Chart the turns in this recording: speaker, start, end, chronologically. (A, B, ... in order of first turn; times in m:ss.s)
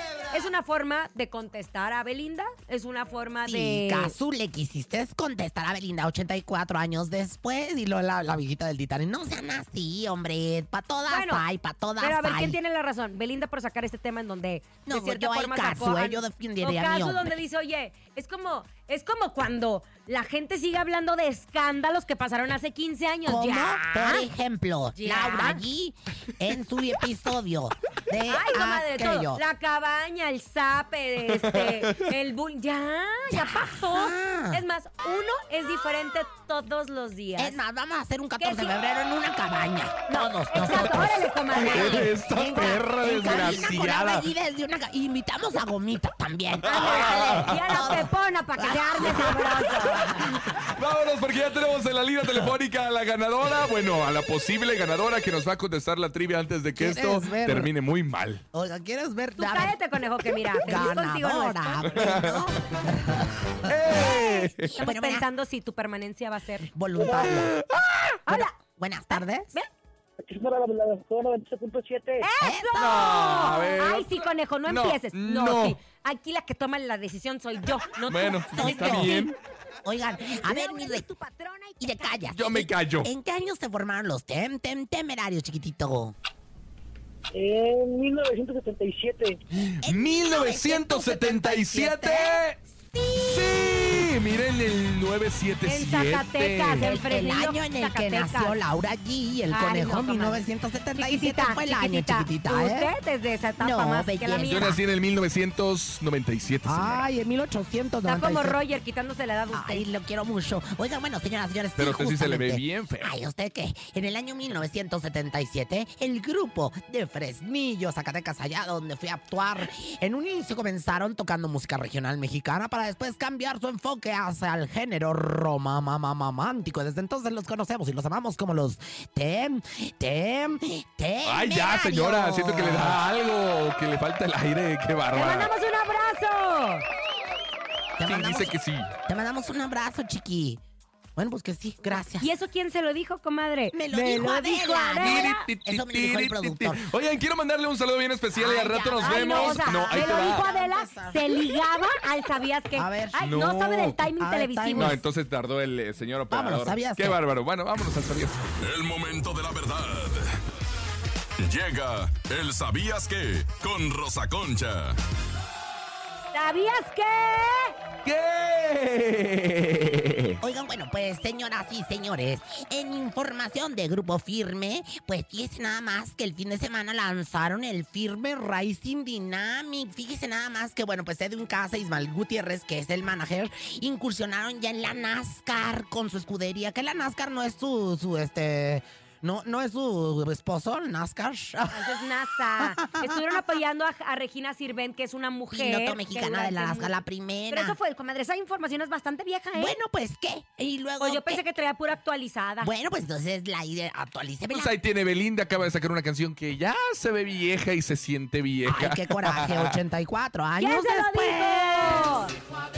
0:00.3-0:04.2 A
0:03.4-0:12.6 B
0:11.1-0:11.4 A
0:12.0-0:24.3 A
0:14.8-0:17.3 B
0:23.2-0:29.4 B
0:24.9-0:25.6 A
0:28.3-0:37.6 A
0:31.6-0:32.0 C
0:33.3-0:34.6 B
0:37.4-0:49.6 B
0:38.4-0:38.7 A
0:40.1-0:42.1 A
0:41.5-0:44.3 C
0:46.6-0:47.9 C
0:46.6-0:50.3 A
0:49.1-0:49.4 C
0:50.2-0:58.4 C
0:56.7-0:57.7 B
0:58.5-1:05.3 B
0:59.4-1:02.3 A
1:01.8-1:02.5 C
1:03.6-1:04.8 C
1:03.9-1:06.7 A
1:06.7-1:07.6 B
1:07.2-1:08.1 C
1:08.2-1:08.6 A
1:08.2-1:09.5 B
1:09.1-1:09.7 A
1:10.2-1:12.3 D
1:12.2-1:19.3 A
1:12.4-1:13.4 B
1:12.8-1:15.8 C
1:18.1-1:19.3 C
1:18.5-1:19.2 B
1:19.8-1:21.1 B
1:20.4-1:22.3 A
1:21.8-1:26.1 B
1:22.4-1:23.1 C
1:27.3-1:29.4 D
1:29.6-1:32.6 C
1:29.8-1:33.7 B
1:33.2-1:36.9 C
1:35.6-1:38.6 A
1:36.8-1:42.9 B
1:39.5-1:40.4 A
1:40.9-1:44.8 A
1:43.6-1:44.8 B
1:44.5-1:47.0 C
1:46.6-1:48.6 B
1:48.0-1:49.9 A
1:49.5-2:13.0 B
1:51.8-1:53.1 C
2:11.2-2:15.5 C
2:15.1-2:16.8 A
2:18.0-2:18.5 B
2:18.0-2:18.9 C
2:19.1-2:20.6 B
2:21.2-2:22.3 B
2:22.2-2:25.4 A
2:23.7-2:26.8 B
2:25.0-2:30.4 C
2:28.4-2:31.4 B
2:29.0-2:35.0 A
2:32.7-2:33.3 B
2:33.2-2:34.0 C
2:34.2-2:35.0 B
2:34.8-2:38.4 C
2:36.3-2:37.2 B
2:38.6-2:40.3 E
2:41.4-2:45.0 E
2:46.3-2:47.7 A
2:48.0-2:50.4 C
2:50.4-3:12.0 B
3:11.7-3:19.7 A
3:12.6-3:13.4 B
3:15.5-3:17.8 B
3:19.5-3:21.4 B
3:21.0-3:22.7 A
3:22.6-3:24.8 B
3:24.5-3:29.8 C
3:28.6-3:32.2 B
3:30.6-3:32.3 A